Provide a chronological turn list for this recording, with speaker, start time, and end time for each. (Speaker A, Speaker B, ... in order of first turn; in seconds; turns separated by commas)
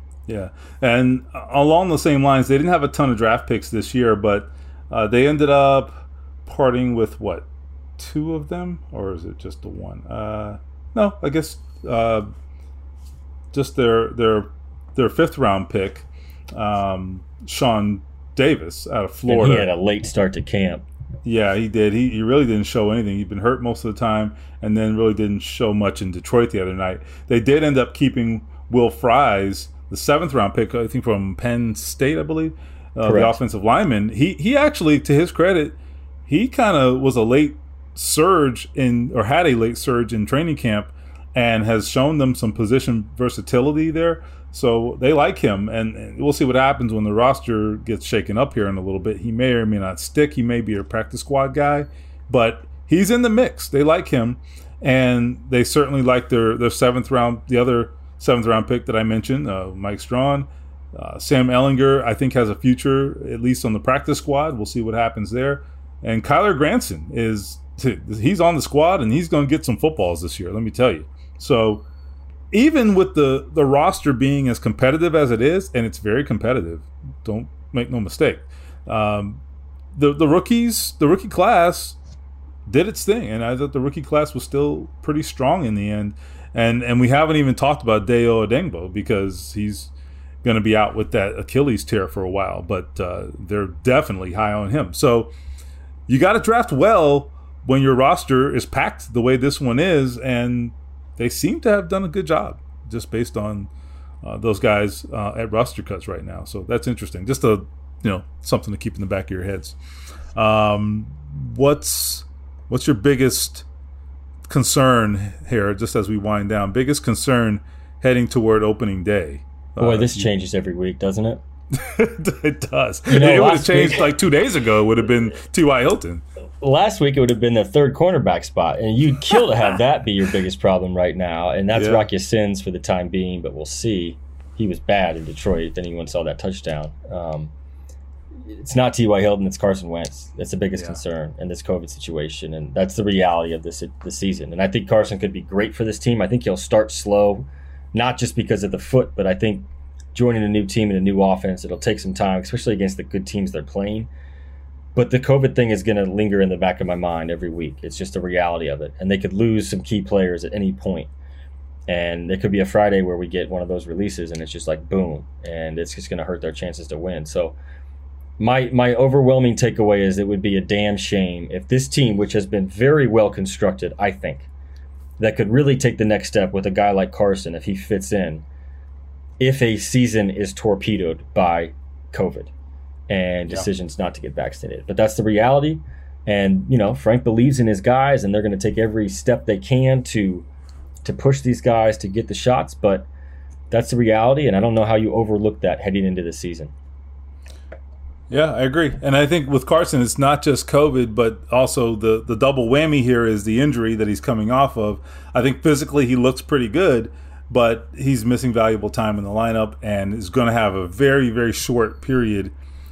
Speaker A: 0.3-12.3, Speaker A: 13.5-19.7, Speaker B: 19.3-20.8, Speaker A: 21.2-71.8, Speaker B: 33.0-33.4, Speaker A: 72.5-79.4, Speaker A: 79.9-82.0, Speaker A: 82.7-89.9, Speaker A: 90.4-95.3, Speaker A: 96.1-103.7, Speaker A: 104.2-109.8, Speaker A: 110.3-113.7, Speaker A: 114.5-120.3, Speaker B: 119.8-121.4, Speaker A: 121.7-126.2, Speaker B: 123.1-124.1, Speaker B: 126.6-137.5, Speaker A: 131.7-132.1, Speaker B: 138.4-154.1, Speaker B: 155.0-161.1, Speaker B: 161.9-167.6, Speaker B: 168.4-174.5, Speaker B: 175.2-178.4, Speaker B: 179.4-182.5, Speaker B: 183.1-190.5, Speaker B: 191.0-193.1, Speaker B: 193.7-196.7, Speaker A: 198.3-212.5